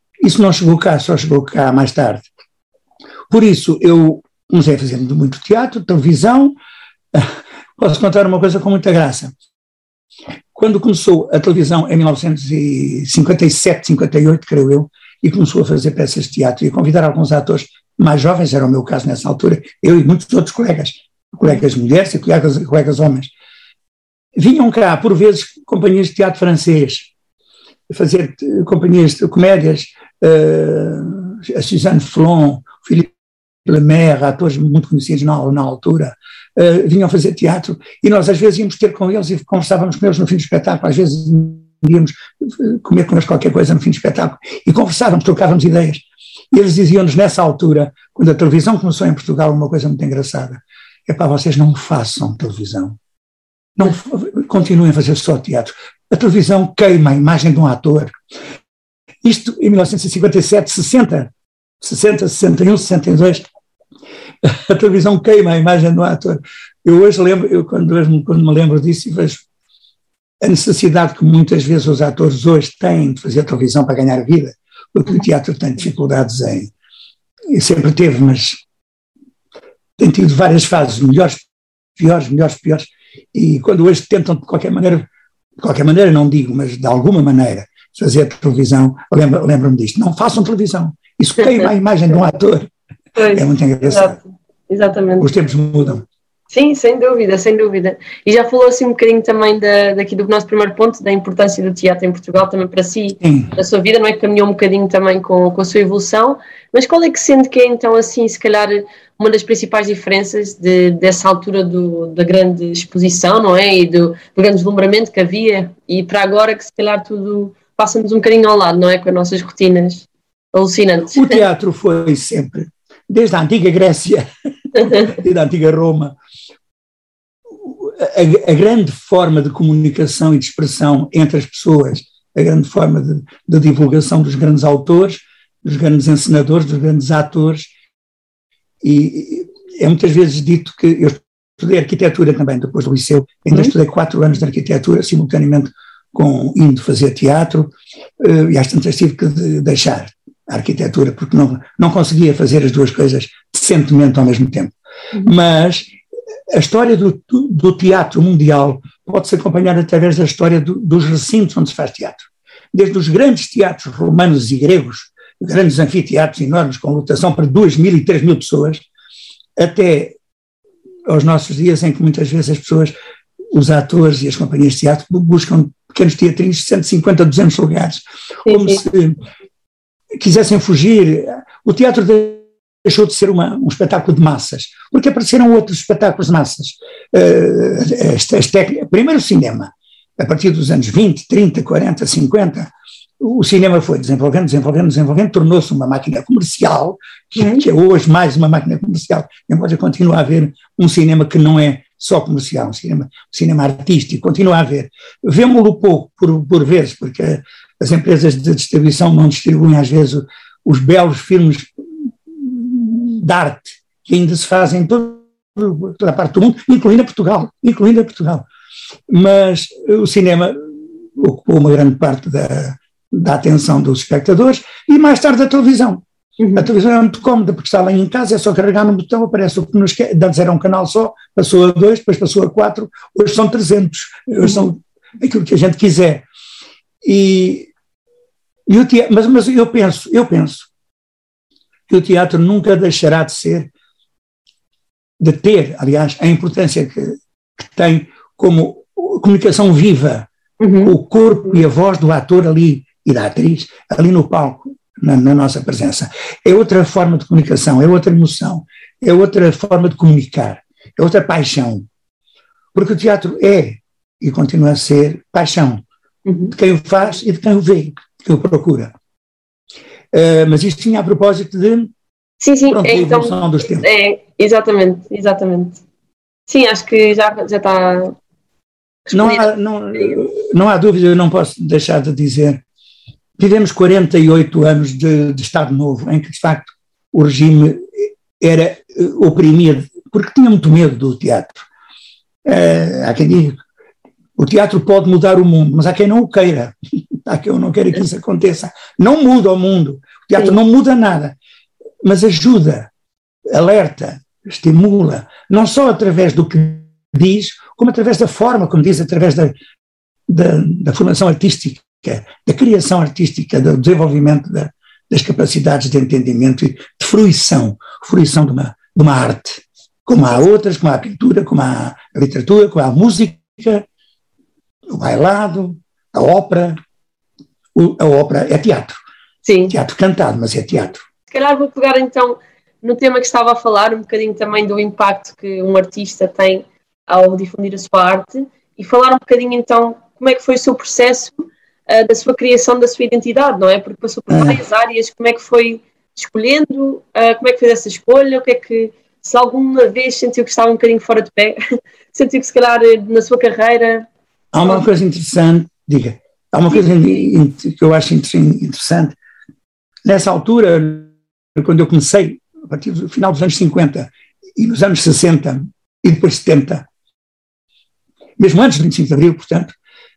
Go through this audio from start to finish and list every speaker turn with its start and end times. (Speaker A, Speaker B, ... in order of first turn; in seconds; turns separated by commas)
Speaker A: 0.2-2.3, Speaker A: 3.3-6.5, Speaker A: 7.1-9.3, Speaker A: 10.5-23.3, Speaker A: 24.3-27.1, Speaker A: 27.9-33.1, Speaker A: 33.6-53.0, Speaker A: 53.8-58.1, Speaker A: 59.2-63.4, Speaker A: 64.4-69.4, Speaker A: 70.4-76.7, Speaker A: 77.5-78.6, Speaker A: 80.0-81.5, Speaker A: 82.0-85.1, Speaker A: 85.6-92.7, Speaker B: 91.4-91.7, Speaker B: 93.2-95.3, Speaker A: 93.3-94.2, Speaker A: 95.2-96.0, Speaker B: 96.5-121.4, Speaker A: 103.2-103.5, Speaker A: 121.1-126.2, Speaker B: 124.8-125.1, Speaker A: 127.7-137.7, Speaker A: 138.8-155.9, Speaker A: 156.5-168.8, Speaker A: 169.6-170.2, Speaker A: 171.1-172.9, Speaker A: 173.5-179.2, Speaker B: 178.4-178.8, Speaker A: 180.2-211.7, Speaker B: 197.4-197.6, Speaker A: 212.3-218.4, Speaker A: 219.1-226.0, Speaker B: 226.4-226.7, Speaker A: 226.5-236.3, Speaker A: 237.0-237.7, Speaker A: 238.7-240.7, Speaker A: 241.9-243.7, Speaker A: 245.2-250.3, Speaker B: 250.6-250.9, Speaker A: 250.8-261.9, Speaker A: 262.7-265.8, Speaker B: 266.2-266.5, Speaker A: 266.5-268.9, Speaker A: 270.1-271.9, Speaker B: 272.4-275.8, Speaker A: 272.7-273.9, Speaker B: 276.5-278.1, Speaker B: 279.1-280.2, Speaker A: 279.1-282.6, Speaker A: 283.4-291.6, Speaker A: 292.4-293.6, Speaker A: 294.4-296.7, Speaker A: 297.2-301.4, Speaker A: 302.0-302.9, Speaker A: 303.5-309.6, Speaker A: 310.3-323.9, Speaker A: 324.9-326.8, Speaker A: 327.8-328.9, Speaker B: 329.4-329.7, Speaker A: 329.7-331.0, Speaker B: 331.3-351.6, Speaker A: 344.3-344.6, Speaker B: 352.1-354.1, Speaker A: 354.5-359.2, Speaker B: 356.7-357.3, Speaker A: 360.1-366.9, Speaker A: 368.4-369.7